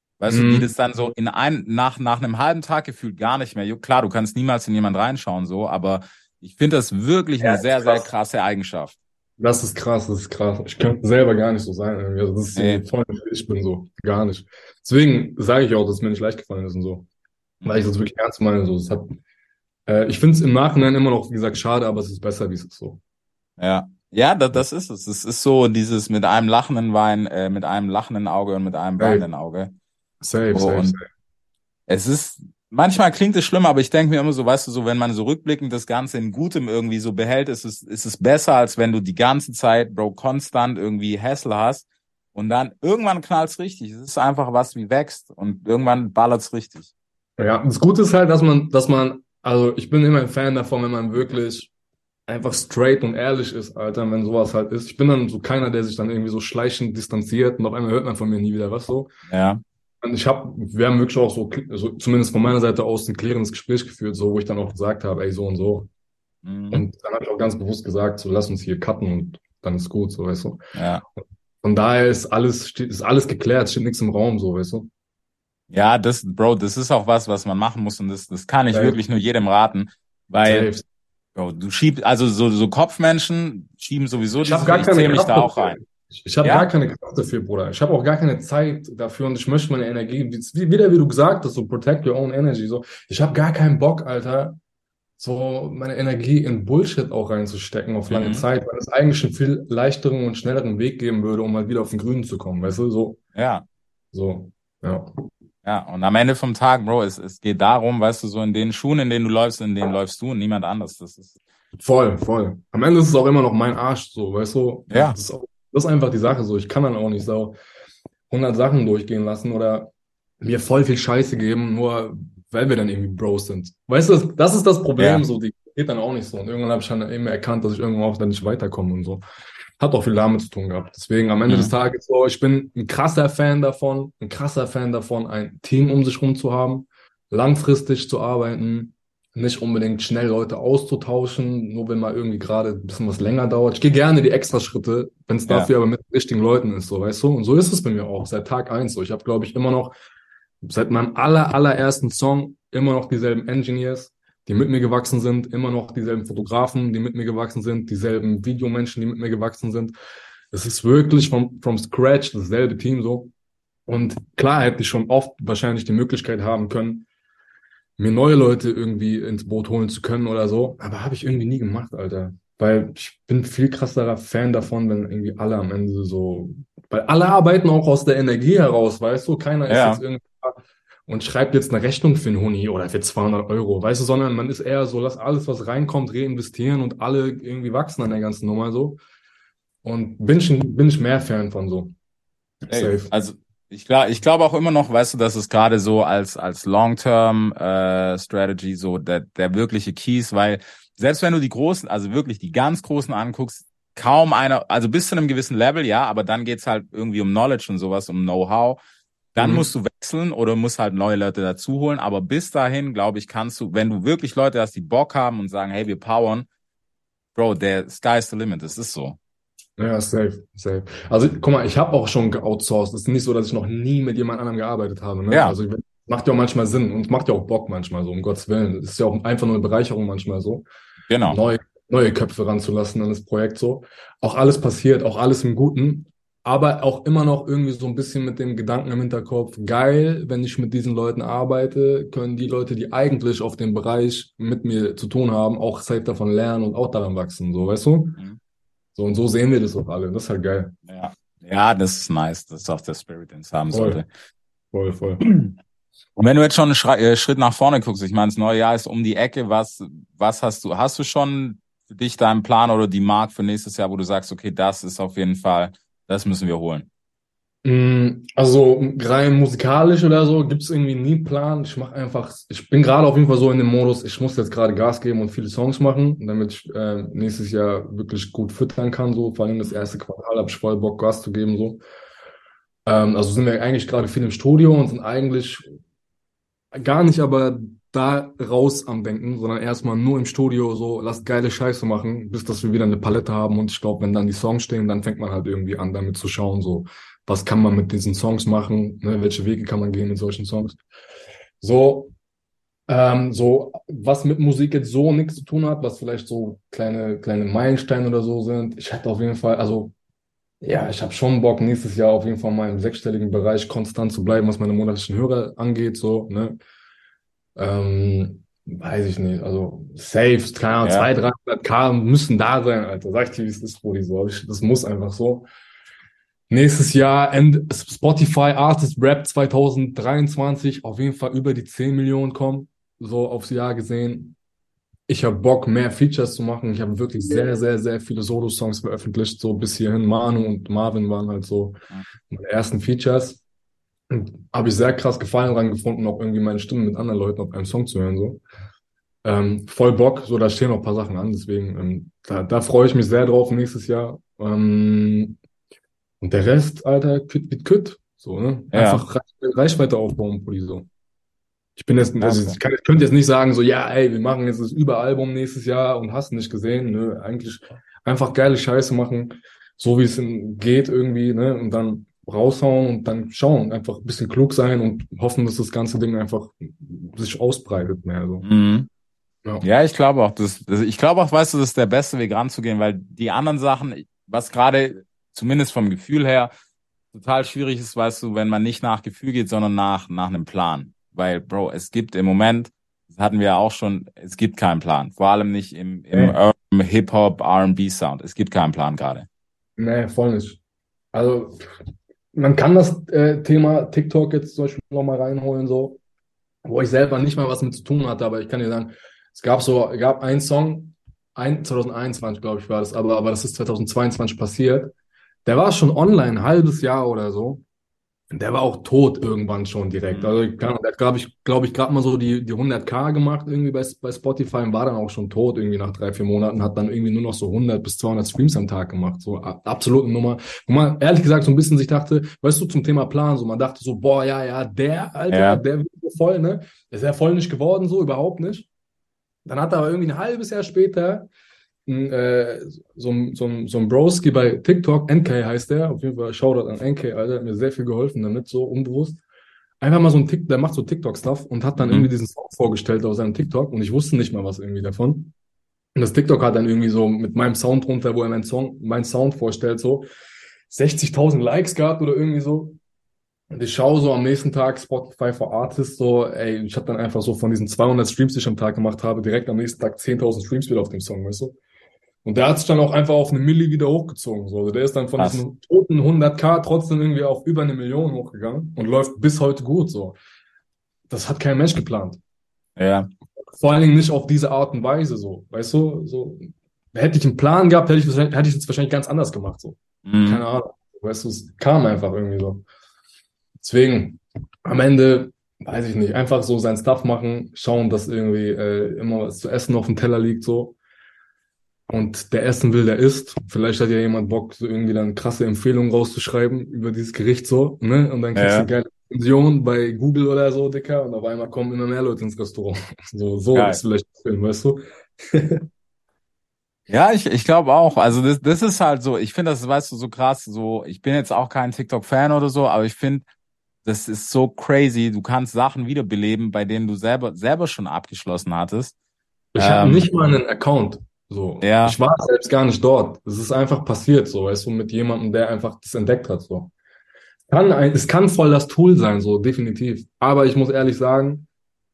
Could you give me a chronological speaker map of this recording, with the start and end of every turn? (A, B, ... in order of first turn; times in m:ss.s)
0:00.2-0:09.0 A
0:00.3-0:00.7 B
0:07.4-0:08.1 B
0:09.4-0:17.1 B
0:12.5-0:12.8 A
0:17.6-0:17.9 A
0:17.6-0:19.2 B
0:19.9-0:23.0 B
0:23.6-0:29.7 A
0:29.0-0:29.3 B
0:30.2-0:31.1 B
0:30.5-0:31.0 A
0:31.9-0:46.9 A
0:47.4-0:51.7 B
0:52.3-0:59.1 B
0:59.3-0:59.6 A
1:00.0-1:05.9 B
1:06.4-1:06.8 A
1:06.7-1:10.6 B
1:10.8-1:11.0 A
1:11.2-1:14.9 B
1:15.7-1:20.7 A
1:18.7-1:19.0 B
1:20.4-1:20.9 B
1:21.4-1:25.8 A
1:24.4-1:34.6 B
1:26.4-1:26.7 A
1:35.2-1:43.2 B
1:38.1-1:38.5 A
1:43.4-1:43.7 A
1:44.1-1:45.1 B
1:45.6-1:51.4 A
1:51.8-1:57.6 B
1:54.9-1:55.2 A
1:58.3-2:09.2 B
2:05.0-2:05.2 A
2:09.8-2:30.0 B
2:11.5-2:11.7 A
2:30.6-2:40.0 B
2:40.5-2:43.3 B
2:43.9-2:47.1 B
2:48.0-3:09.0 B
2:59.7-3:00.0 A
3:09.8-3:12.0 B
3:12.7-3:13.1 B
3:12.7-3:28.8 A
3:29.3-3:36.5 A
3:29.4-3:29.7 B
3:37.4-3:39.2 A
3:39.8-3:50.7 B
3:45.3-3:45.6 A
3:51.1-3:51.4 A
3:51.3-4:08.2 B
4:09.0-4:10.7 B
4:10.9-4:14.1 A
4:13.7-4:14.0 B
4:14.7-4:15.2 B
4:15.2-4:15.6 A
4:16.2-4:26.9 A
4:27.6-4:41.8 B
4:42.9-4:45.7 B
4:46.7-5:00.8 B
5:01.6-5:02.1 B
5:02.9-5:09.9 B
5:10.6-5:16.6 B
5:17.6-5:25.5 B
5:20.8-5:21.1 A
5:26.5-5:34.4 B
5:35.1-5:41.8 B
5:42.3-5:43.4 B
5:44.1-5:48.4 B
5:49.2-5:55.4 B
5:56.2-6:00.9 B
5:58.7-5:59.0 A
6:01.8-6:18.5 B
6:02.2-6:02.6 A
6:18.4-6:18.9 A
6:19.6-6:26.5 A
6:27.1-6:39.3 A
6:39.8-6:40.6 B
6:41.1-6:41.7 B
6:42.3-6:46.0 B
6:46.6-6:54.9 B
6:55.4-6:57.6 B
6:58.3-7:18.7 B
7:00.1-7:00.4 A
7:15.3-7:15.6 A
7:19.4-7:21.3 B
7:21.9-7:29.2 B
7:29.8-7:35.3 B
7:31.8-7:32.1 A
7:36.0-7:40.1 B
7:40.7-7:42.8 B
7:43.5-7:51.6 B
7:52.2-8:00.2 B
7:55.2-7:55.4 A
8:01.1-8:02.2 B
8:02.8-8:03.1 A
8:03.5-8:12.6 B
8:10.0-8:10.4 A
8:13.6-8:20.8 B
8:21.9-8:35.6 B
8:28.4-8:28.7 A
8:33.5-8:33.8 A
8:36.9-8:43.3 A
8:43.8-8:48.9 A
8:49.6-8:56.7 B
8:49.6-8:50.1 A
8:51.6-8:52.0 A
8:57.5-9:01.5 B